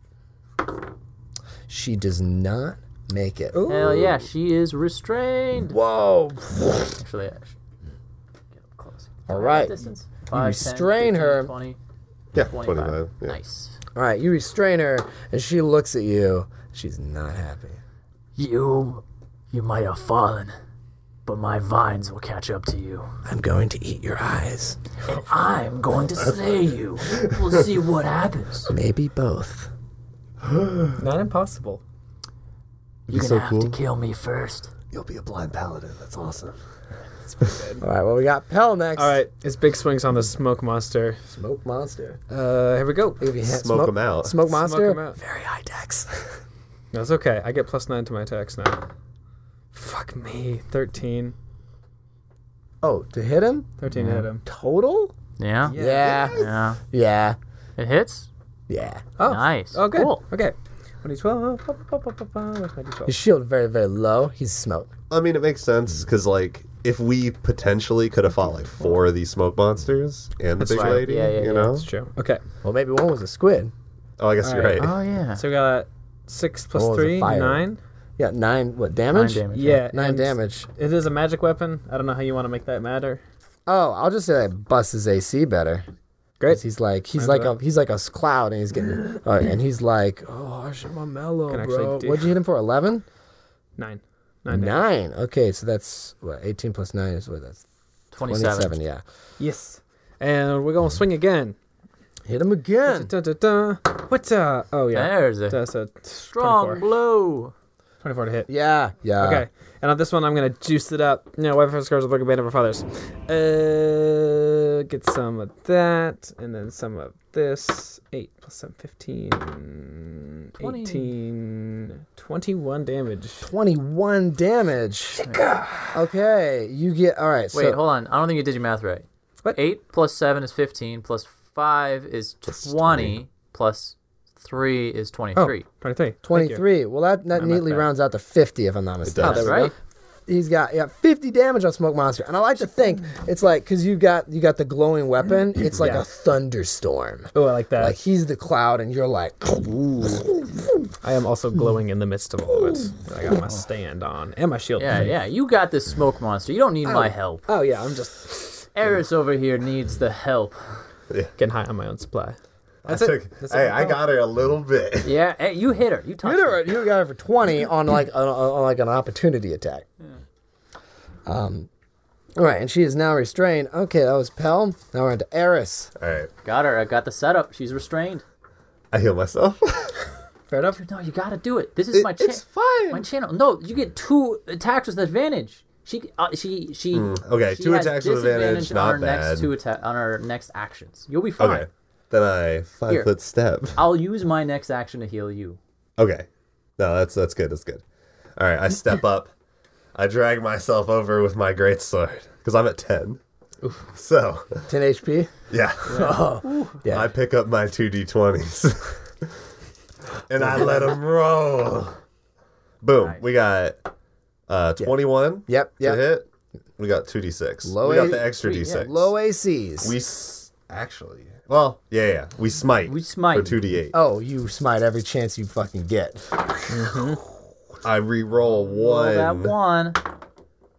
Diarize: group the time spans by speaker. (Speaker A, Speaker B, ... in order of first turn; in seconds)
Speaker A: 1.7-3.6, 5.7-7.0, 9.3-9.8, 10.3-11.5, 13.9-17.8, 23.2-24.8, 28.7-29.7, 37.8-39.2, 41.3-42.2, 43.2-46.4, 52.8-53.7, 54.4-55.1, 55.7-57.4, 58.7-59.0, 63.0-64.9, 72.6-73.7, 76.7-77.6, 78.2-80.7, 83.7-85.8, 86.5-93.0, 94.5-97.6, 98.2-99.0, 102.2-103.1, 108.5-109.4, 123.4-125.2, 125.9-127.8, 136.2-139.7, 140.3-150.6, 166.2-169.8, 171.2-171.7, 172.3-175.9, 204.7-205.3, 205.8-207.1, 210.4-210.9, 215.4-216.0, 217.6-219.9, 223.9-226.2
Speaker B: 3.5-4.1, 31.0-31.8, 37.3-37.8, 39.0-41.2, 42.3-43.2, 44.4-45.2, 46.9-48.8, 49.7-51.3, 53.8-54.4, 55.7-56.2, 59.2-63.1, 70.6-72.4, 74.4-77.8, 79.5-83.2, 87.2-87.5, 91.5-92.3, 93.8-94.9, 99.4-101.5, 102.9-106.8, 108.0-108.5, 109.2-123.5, 125.2-126.0, 135.3-136.6, 137.3-137.9, 139.2-139.7, 145.8-146.0, 147.3-148.0, 151.0-155.2, 157.5-158.6, 161.4-164.0, 180.5-180.8, 226.7-227.2
Speaker C: 3.6-5.8, 7.0-7.5, 8.6-11.8, 12.5-13.8, 18.4-20.5, 21.2-23.1, 25.1-28.7, 33.1-34.7, 53.9-54.3, 55.4-56.8, 57.8-58.3, 59.2-60.2, 70.6-71.8, 74.4-75.4, 79.1-79.8, 98.1-98.8, 104.9-105.6, 106.2-107.5, 120.6-121.1, 125.2-125.5, 127.5-135.7, 139.2-139.7, 154.8-157.5, 158.7-160.8, 165.0-166.7, 176.4-178.2, 180.7-191.7, 193.7-195.6, 205.9-206.6, 218.3-218.9, 222.8-223.6, 228.4-230.0
Speaker D: 12.3-13.3, 30.4-30.9, 33.1-33.8, 34.9-36.6, 43.4-44.4, 56.0-56.5, 65.1-71.9, 74.2-75.0, 132.5-133.2, 139.0-139.7, 162.8-165.1, 175.9-176.3, 178.9-179.9, 181.9-183.0, 186.9-189.5, 191.4-193.8, 196.0-196.3, 196.8-197.8, 198.4-199.3, 199.9-203.2, 203.9-204.7, 205.5-206.1, 206.9-209.4, 210.3-212.0, 212.8-213.8, 214.5-216.2, 216.8-219.1, 219.8-223.9, 227.8-229.6